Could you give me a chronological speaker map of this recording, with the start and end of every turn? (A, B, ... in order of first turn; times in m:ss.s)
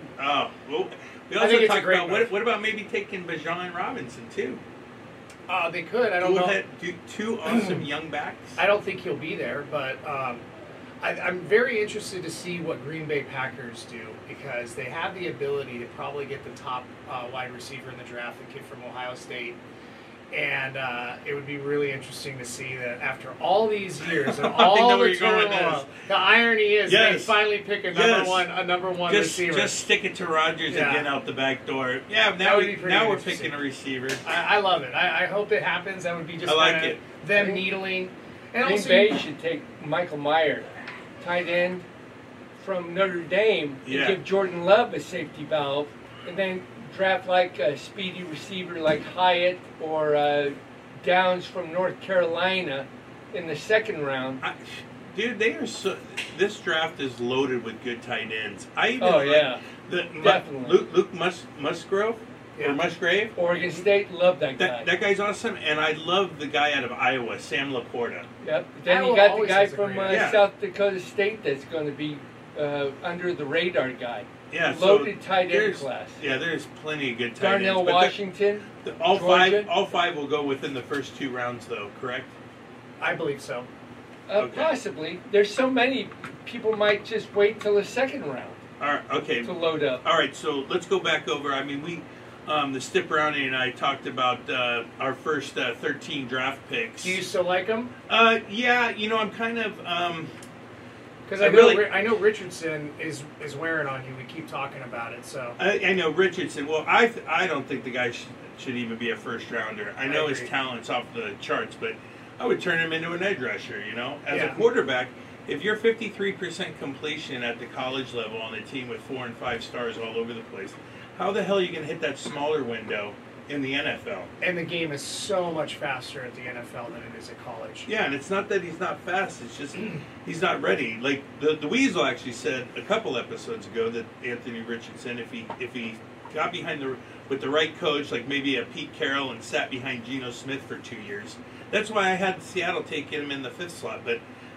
0:00.2-0:04.6 A
0:01.4-0:02.3 B
0:05.5-0:06.6 B
0:06.2-0:08.6 A
0:07.4-0:07.8 B
0:08.6-0:10.4 B
0:11.0-0:19.6 B
0:20.3-0:29.8 B
0:24.2-0:25.9 A
0:26.8-0:27.4 A
0:27.9-0:28.5 A
0:29.0-0:34.2 A
0:30.7-0:31.1 B
0:32.4-0:33.5 B
0:34.2-0:39.2 B
0:36.4-0:37.0 A
0:37.3-0:37.7 C
0:38.6-0:40.7 C
0:41.2-0:41.8 C
0:42.6-0:54.4 C
0:43.8-0:44.2 A
0:54.4-1:03.3 A
0:59.0-0:59.6 C
1:00.2-1:00.8 C
1:02.6-1:02.8 B
1:03.4-1:04.9 C
1:04.6-1:08.2 A
1:08.4-1:16.2 C
1:08.8-1:10.3 B
1:10.0-1:10.4 A
1:14.5-1:18.2 A
1:17.4-1:19.7 C
1:18.8-1:22.3 A
1:23.0-1:23.7 B
1:24.3-1:28.6 C
1:24.3-1:24.7 A
1:28.8-1:37.2 A
1:29.5-1:30.0 C
1:37.0-1:37.9 B
1:38.1-1:40.3 A
1:41.2-1:45.6 B
1:41.4-1:41.9 A
1:45.6-2:04.3 A
1:50.0-1:50.5 B
1:54.3-1:54.6 B
2:04.4-2:07.9 B
2:07.8-2:24.2 A